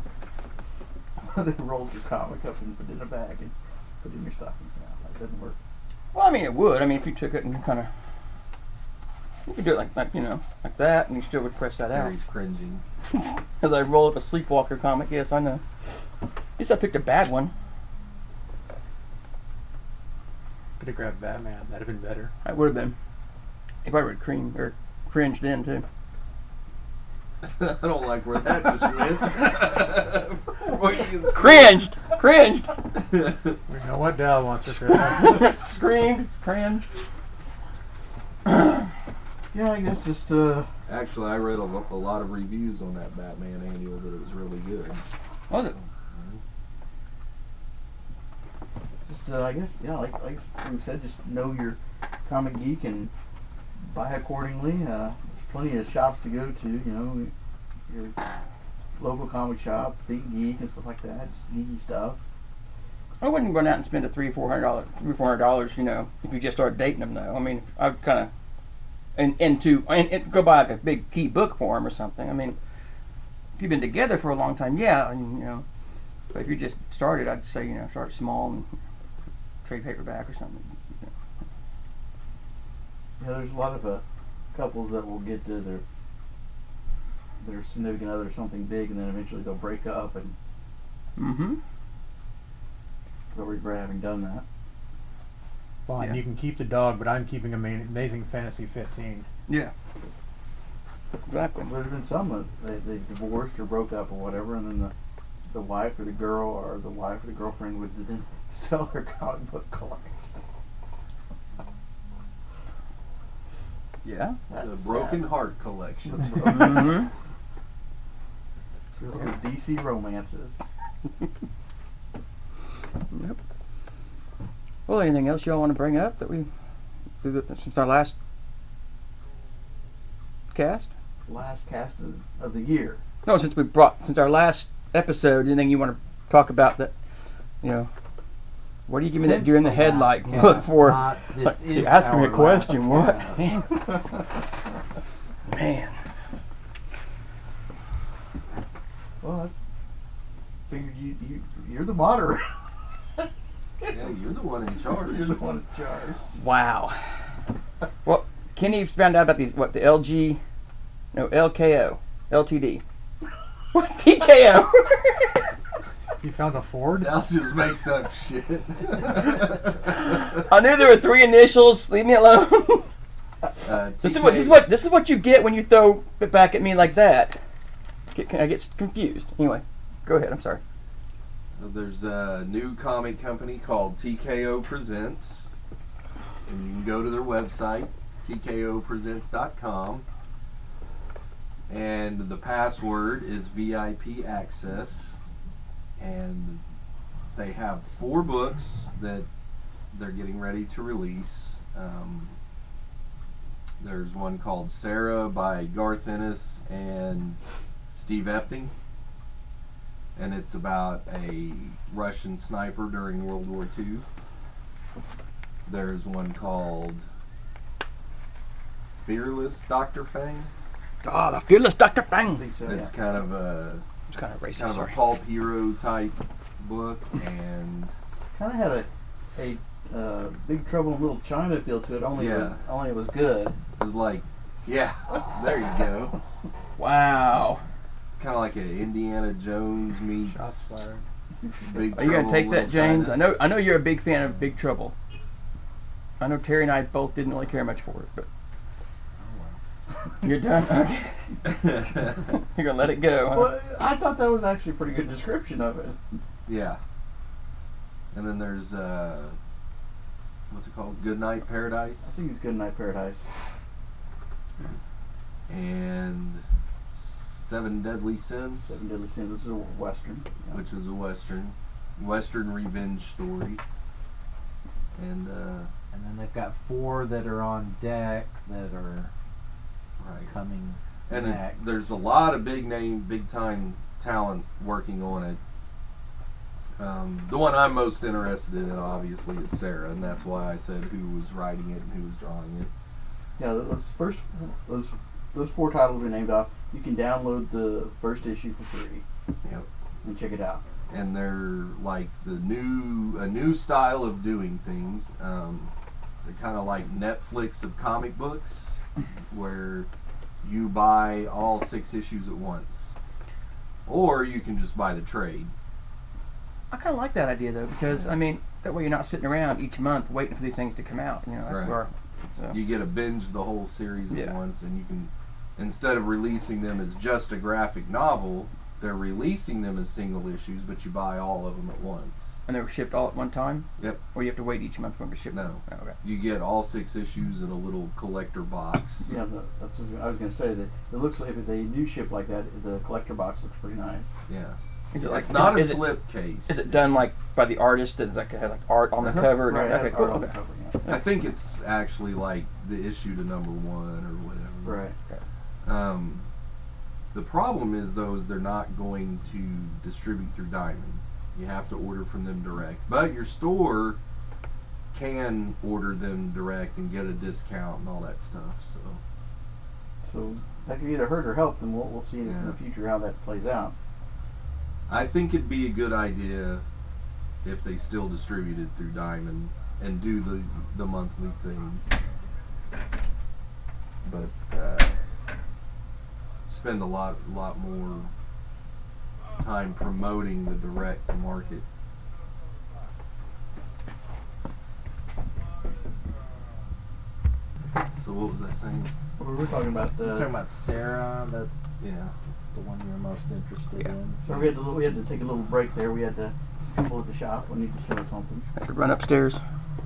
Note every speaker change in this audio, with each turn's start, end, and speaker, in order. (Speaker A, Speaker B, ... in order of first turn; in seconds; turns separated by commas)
Speaker A: 1.2-5.5, Speaker B: 6.1-7.9, Speaker B: 9.4-12.1, Speaker C: 11.9-12.8, Speaker B: 13.2-15.6, Speaker B: 16.6-17.5, Speaker D: 20.8-22.3, Speaker B: 22.4-22.9, Speaker B: 23.8-25.9, Speaker C: 27.4-31.8, Speaker B: 31.3-32.7, Speaker C: 33.0-33.6, Speaker D: 33.7-35.5, Speaker B: 34.9-36.9, Speaker A: 39.5-40.7, Speaker C: 40.9-45.0, Speaker B: 45.5-45.8, Speaker C: 45.8-46.4, Speaker A: 49.1-53.1, Speaker A: 53.8-57.3, Speaker A: 57.9-58.1, Speaker A: 59.0-62.2, Speaker B: 63.2-68.3, Speaker B: 69.2-72.6, Speaker B: 73.6-75.6, Speaker B: 76.3-78.7, Speaker B: 79.6-81.1, Speaker A: 83.2-85.8, Speaker A: 87.4-90.3, Speaker B: 91.2-91.6, Speaker A: 93.3-94.4, Speaker D: 95.8-99.3, Speaker B: 99.5-99.7, Speaker B: 101.3-101.7, Speaker A: 101.6-104.9, Speaker A: 105.5-110.4, Speaker B: 114.0-114.4, Speaker A: 114.5-115.4, Speaker C: 114.5-116.9, Speaker A: 116.1-117.0, Speaker B: 116.5-117.1, Speaker A: 118.9-120.5, Speaker B: 123.1-123.4, Speaker B: 124.9-126.5, Speaker B: 127.2-128.1, Speaker B: 130.5-130.9, Speaker A: 131.3-133.0, Speaker B: 133.2-136.9, Speaker B: 137.6-137.9, Speaker B: 138.9-143.8, Speaker E: 139.1-143.4, Speaker B: 145.4-146.0, Speaker A: 149.2-149.5, Speaker A: 150.7-152.5, Speaker C: 153.9-155.4, Speaker A: 155.0-156.2, Speaker B: 156.4-157.0, Speaker B: 158.0-160.4, Speaker B: 161.1-162.8, Speaker B: 163.7-165.5, Speaker D: 166.2-167.2, Speaker C: 167.0-170.2, Speaker B: 170.3-172.9, Speaker C: 173.6-174.7, Speaker B: 174.0-177.4, Speaker B: 178.1-180.6, Speaker C: 181.6-185.4, Speaker C: 186.4-190.0, Speaker C: 191.7-195.2, Speaker C: 196.0-196.6, Speaker C: 197.3-199.3, Speaker C: 199.9-202.3, Speaker C: 203.8-207.4, Speaker C: 207.9-208.7, Speaker C: 210.2-214.0, Speaker C: 215.7-217.0, Speaker C: 219.0-220.5, Speaker B: 221.0-222.4, Speaker A: 222.3-222.9, Speaker C: 222.7-223.8, Speaker B: 224.1-225.0, Speaker C: 224.6-227.9, Speaker A: 228.3-233.6, Speaker C: 232.2-232.6, Speaker C: 233.8-236.2, Speaker B: 236.8-237.6, Speaker C: 238.1-240.6, Speaker D: 240.3-241.0, Speaker C: 241.6-243.2, Speaker B: 241.9-244.9, Speaker B: 246.2-248.2, Speaker E: 249.2-249.6, Speaker B: 250.2-253.5, Speaker C: 251.4-252.3, Speaker A: 253.3-256.0, Speaker C: 256.4-256.8, Speaker C: 258.1-259.4, Speaker C: 260.5-262.2, Speaker A: 262.0-263.3, Speaker C: 265.5-268.7, Speaker A: 268.6-270.6, Speaker C: 270.5-273.6, Speaker C: 274.9-275.7, Speaker E: 275.9-279.1, Speaker C: 280.0-280.3, Speaker E: 280.2-281.8, Speaker C: 281.1-285.4, Speaker C: 286.8-292.7, Speaker A: 293.4-299.0, Speaker A: 300.0-300.6, Speaker C: 300.9-305.7, Speaker C: 306.2-309.9, Speaker C: 310.4-312.9, Speaker C: 313.9-315.5, Speaker B: 316.7-322.6, Speaker C: 321.5-321.8, Speaker C: 322.5-332.3, Speaker B: 324.1-324.4, Speaker B: 332.5-335.9, Speaker C: 335.3-339.1, Speaker A: 339.1-344.1, Speaker C: 344.3-346.9, Speaker B: 344.9-350.3, Speaker A: 349.0-350.9, Speaker C: 350.8-354.8, Speaker A: 354.6-354.9, Speaker C: 355.6-356.2, Speaker C: 357.1-364.0, Speaker C: 364.9-369.0, Speaker A: 370.0-373.7, Speaker C: 372.2-372.6, Speaker C: 374.9-376.6, Speaker C: 377.4-381.8, Speaker C: 384.0-385.0, Speaker C: 386.4-388.1, Speaker C: 389.4-391.6, Speaker C: 397.9-398.9, Speaker A: 399.2-400.3, Speaker E: 400.0-401.5, Speaker C: 401.8-402.1, Speaker E: 402.5-404.2, Speaker A: 404.2-408.4, Speaker C: 404.3-404.5, Speaker B: 408.6-409.4